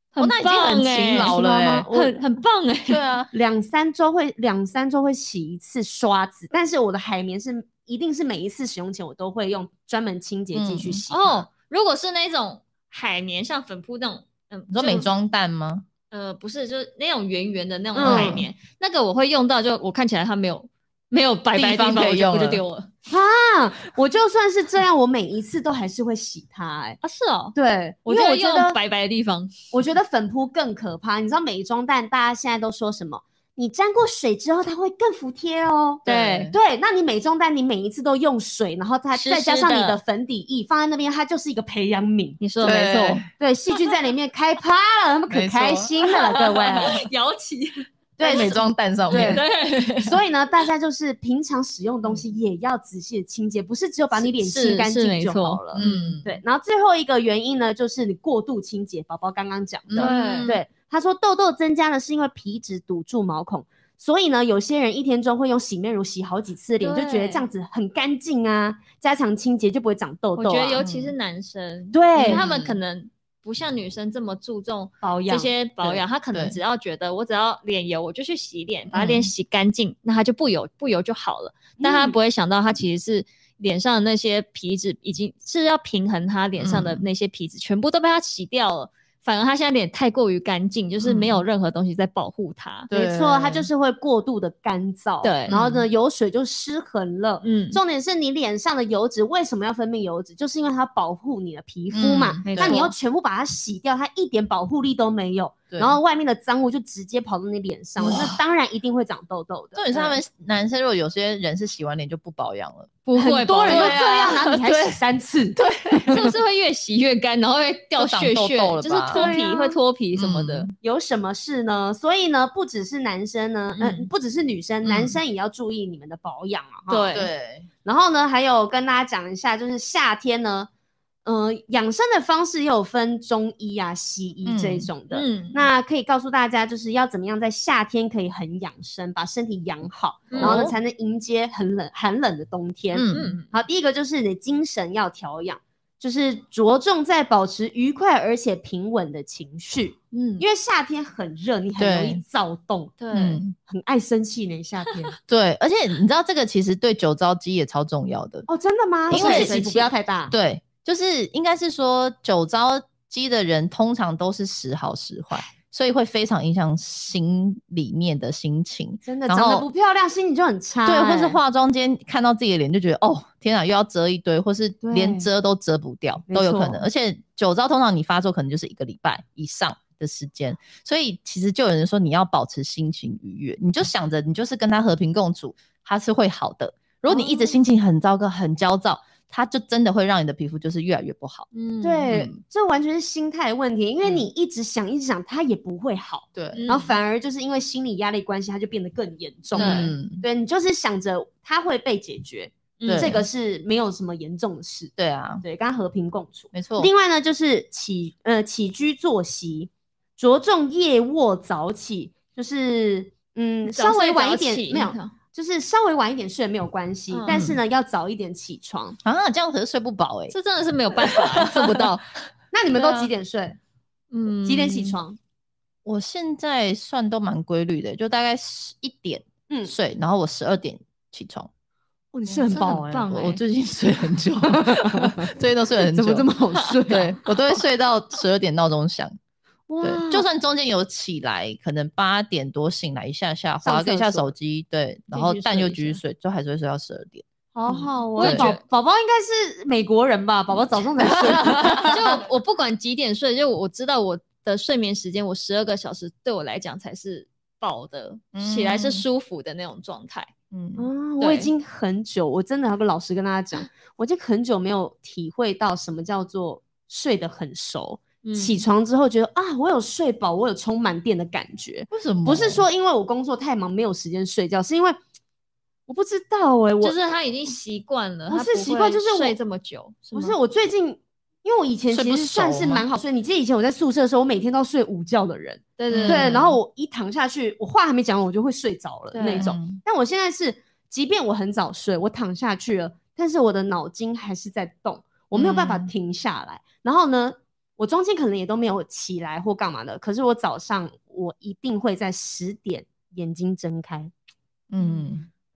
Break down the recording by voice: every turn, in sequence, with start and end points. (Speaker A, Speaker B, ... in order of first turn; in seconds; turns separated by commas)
Speaker A: 0.1-3.0, Speaker B: 0.2-1.9, Speaker C: 1.1-2.1, Speaker B: 2.9-3.3, Speaker C: 3.3-11.4, Speaker B: 10.5-11.0, Speaker A: 11.1-15.1, Speaker B: 14.7-15.9, Speaker A: 16.1-22.9, Speaker C: 17.9-18.4, Speaker B: 18.0-18.5, Speaker B: 21.6-22.6, Speaker C: 23.1-27.0, Speaker A: 27.0-27.6, Speaker C: 27.6-28.8, Speaker A: 28.1-29.6, Speaker C: 29.7-42.7, Speaker A: 36.1-36.5, Speaker B: 36.1-36.5, Speaker A: 39.1-40.0, Speaker A: 42.4-43.2, Speaker B: 42.6-43.3, Speaker C: 43.4-47.0, Speaker B: 45.3-46.7, Speaker A: 46.6-48.6, Speaker B: 48.2-49.4, Speaker C: 48.2-49.4, Speaker A: 49.1-50.2, Speaker C: 50.0-70.8, Speaker A: 54.2-56.2, Speaker B: 55.7-56.4, Speaker B: 59.9-60.6, Speaker A: 60.0-60.6, Speaker A: 66.8-67.5, Speaker A: 70.4-92.9, Speaker B: 70.8-71.1, Speaker C: 71.9-72.4, Speaker B: 72.2-72.8, Speaker C: 75.0-75.5, Speaker B: 75.8-76.6, Speaker B: 78.9-79.3, Speaker C: 81.8-82.2, Speaker B: 86.6-87.0, Speaker B: 91.0-91.4, Speaker B: 92.9-93.7, Speaker C: 92.9-110.2, Speaker A: 95.2-95.6, Speaker B: 95.5-95.8, Speaker A: 97.4-97.8, Speaker B: 101.9-102.9, Speaker A: 102.4-102.9, Speaker B: 105.7-106.0, Speaker B: 108.0-108.4, Speaker B: 109.7-113.0, Speaker A: 113.1-114.0, Speaker C: 113.1-116.2, Speaker B: 113.7-115.0, Speaker B: 115.5-116.3, Speaker A: 116.1-120.7, Speaker B: 118.0-119.2, Speaker C: 119.1-119.8, Speaker B: 120.2-120.7, Speaker C: 120.8-127.2, Speaker A: 123.8-124.1, Speaker B: 124.8-125.2, Speaker A: 126.9-127.3, Speaker B: 127.1-127.7, Speaker C: 127.8-130.7, Speaker C: 131.2-153.0, Speaker B: 134.4-134.9, Speaker A: 135.1-135.6, Speaker A: 140.3-140.7, Speaker B: 140.4-140.8, Speaker B: 142.9-143.4, Speaker A: 143.1-143.5, Speaker A: 150.1-150.4, Speaker B: 151.8-152.2, Speaker A: 153.0-153.4, Speaker B: 153.1-153.6, Speaker C: 153.6-155.1, Speaker B: 155.3-158.5, Speaker C: 158.5-160.3, Speaker B: 159.1-159.6, Speaker A: 159.1-159.9, Speaker B: 160.3-169.7, Speaker C: 169.1-171.4, Speaker B: 170.8-191.5, Speaker C: 174.8-175.3, Speaker C: 176.3-176.8, Speaker C: 187.1-187.5, Speaker A: 191.5-192.1, Speaker C: 191.8-219.0, Speaker B: 192.1-192.4, Speaker A: 196.5-196.9, Speaker A: 199.6-199.9, Speaker B: 199.6-200.2, Speaker A: 202.8-203.2, Speaker B: 202.9-203.2, Speaker B: 205.0-205.4, Speaker B: 206.5-206.9, Speaker A: 213.7-215.1, Speaker A: 217.1-217.4, Speaker B: 217.3-217.6, Speaker B: 219.0-220.3, Speaker A: 220.3-222.0, Speaker B: 221.1-221.9, Speaker C: 222.5-223.6, Speaker B: 222.7-223.1, Speaker A: 224.1-225.0, Speaker C: 224.4-225.2, Speaker B: 225.8-231.5, Speaker C: 229.5-229.7, Speaker C: 232.1-233.1, Speaker B: 232.3-236.3, Speaker A: 232.4-233.4, Speaker C: 234.5-235.3, Speaker C: 235.8-237.6, Speaker B: 236.9-239.2, Speaker C: 239.7-240.3, Speaker B: 239.8-248.5, Speaker C: 243.6-244.3, Speaker A: 245.1-246.0, Speaker C: 247.6-252.2, Speaker A: 248.2-248.6, Speaker B: 251.2-251.9, Speaker A: 251.7-260.3, Speaker B: 258.3-259.0, Speaker B: 260.5-260.9, Speaker C: 260.8-275.0, Speaker A: 261.2-261.5, Speaker A: 268.2-268.6, Speaker B: 271.9-272.6, Speaker C: 275.9-276.9, Speaker A: 276.8-280.4, Speaker C: 278.3-279.4, Speaker C: 280.1-304.1, Speaker B: 281.9-282.9, Speaker A: 285.8-286.5, Speaker B: 285.9-286.5, Speaker A: 289.1-289.5, Speaker B: 289.4-289.8, Speaker B: 295.3-295.9, Speaker B: 304.7-305.3